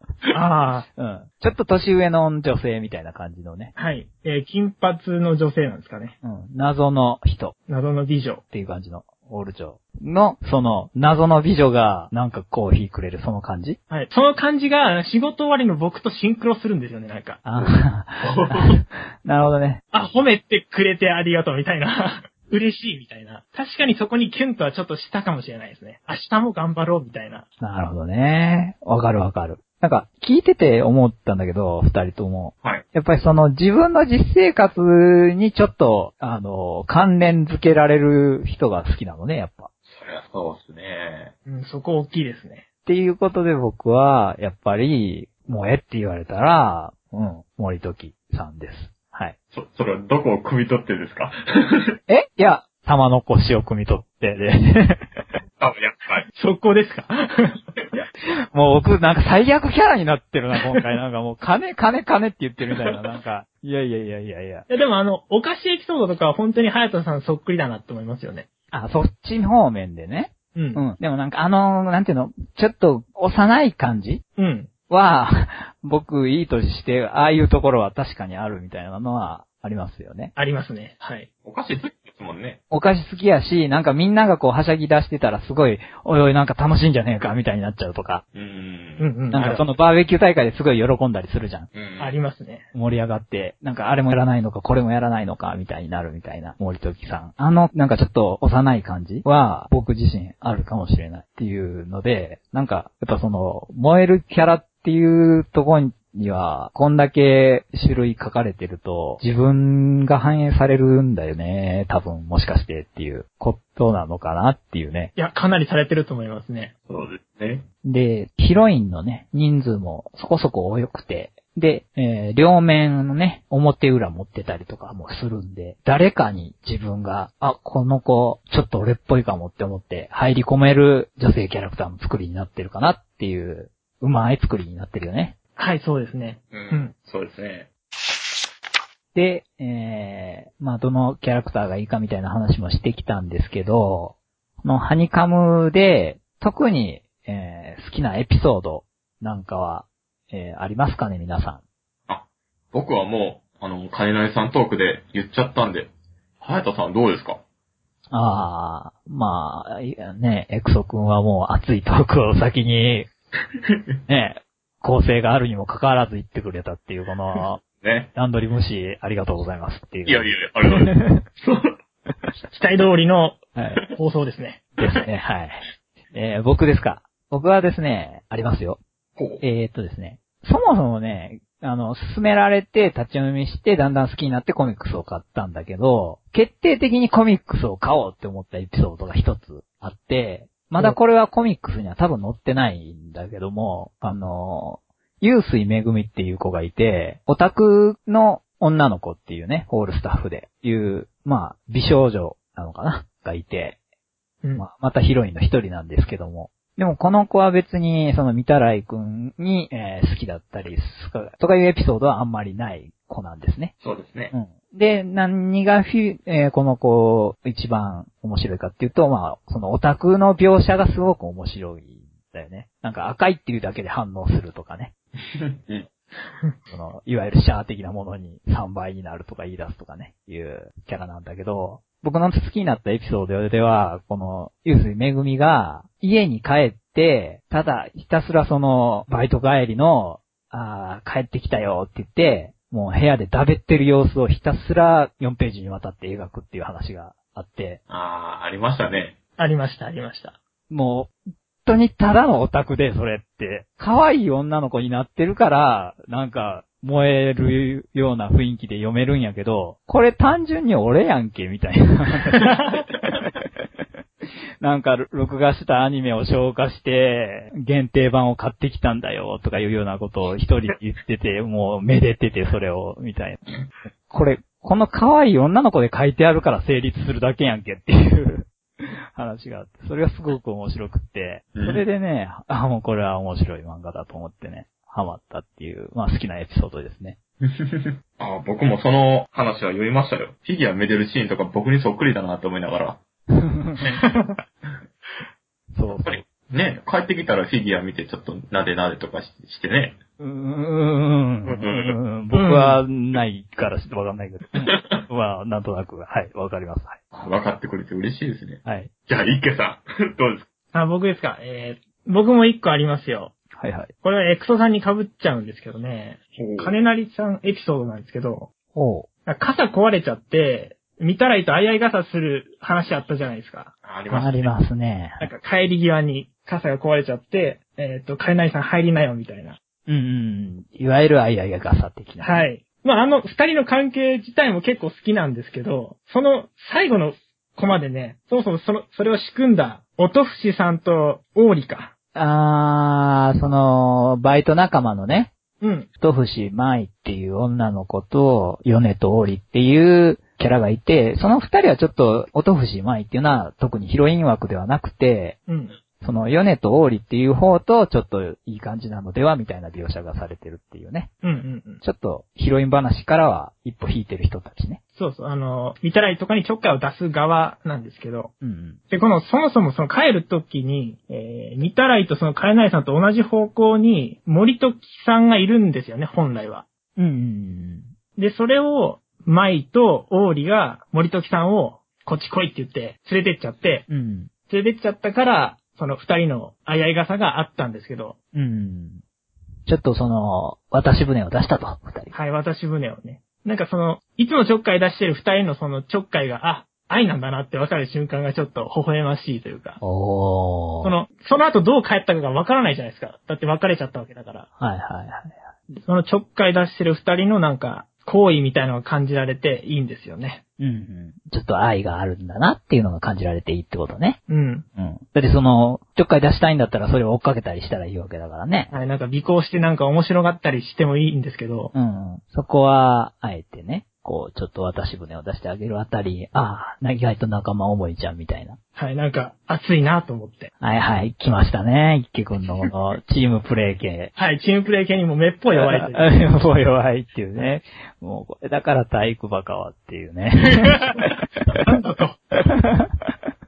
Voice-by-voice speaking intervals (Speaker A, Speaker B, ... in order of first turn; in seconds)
Speaker A: 0.3-0.9, 3.8-6.2, 7.7-8.4, 13.9-17.4, 19.9-27.4, 41.5-42.6, 56.3-57.6, 64.7-68.5, 70.5-70.8, 74.4-74.7, 80.3-81.3, 89.0-89.6, 92.0-92.7, 115.2-116.7, 135.6-136.9, 172.5-173.4, 173.9-174.7, 249.4-250.3, 302.3-302.8, 310.7-313.3, 314.0-318.5, 319.2-323.7, 325.2-329.6, 332.2-341.9, 345.6-345.9, 355.5-355.7, 361.2-361.8, 364.9-368.3, 368.9-376.6, 378.2-383.9, 384.5-388.1, 392.1-399.8, 400.8-404.5, 405.8-410.4, 414.3-414.6, 418.7-421.7, 428.8-430.5, 434.1-436.1, 440.5-440.9, 441.6-442.2
Speaker B: 1.0-3.7, 6.2-7.5, 8.5-13.8, 17.4-19.8, 27.6-39.7, 42.9-49.3, 52.1-55.2, 58.5-64.7, 68.7-74.2, 74.9-80.3, 82.7-88.2, 89.3-91.7, 92.7-115.1, 117.8-135.3, 139.1-151.6, 158.1-163.1, 164.1-167.6, 168.1-171.2, 173.6-173.8, 174.8-178.8, 179.4-203.8, 204.6-213.7, 214.3-224.9, 226.7-247.8, 250.7-251.1, 251.6-262.6, 263.1-263.4, 264.6-273.4, 274.1-287.2, 293.3-293.8, 295.7-296.2, 300.2-307.0, 308.6-308.9, 313.6-313.9, 318.7-319.1, 324.1-325.3, 329.9-332.4, 342.1-345.3, 346.0-355.4, 356.0-361.1, 361.8-364.8, 368.4-368.8, 377.0-377.9, 383.9-384.3, 388.3-389.0, 389.7-392.1, 399.8-400.9, 404.6-405.4, 410.6-414.2, 414.8-418.7, 421.7-428.6, 430.6-434.1, 435.5-441.6, 442.4-443.1
Speaker C: 18.2-18.8, 39.9-41.3, 49.5-52.0, 55.6-56.3, 81.4-82.6, 88.3-89.6, 91.7-92.2, 116.9-117.7, 136.5-137.7, 152.1-155.9, 156.4-157.4, 167.8-168.1, 170.1-171.8, 179.2-179.4, 213.8-214.3, 225.4-225.9, 247.9-249.2, 281.5-281.8, 287.4-293.0, 296.0-300.0, 301.4-302.0, 304.7-305.0, 307.1-310.5, 316.4-316.7, 323.8-324.5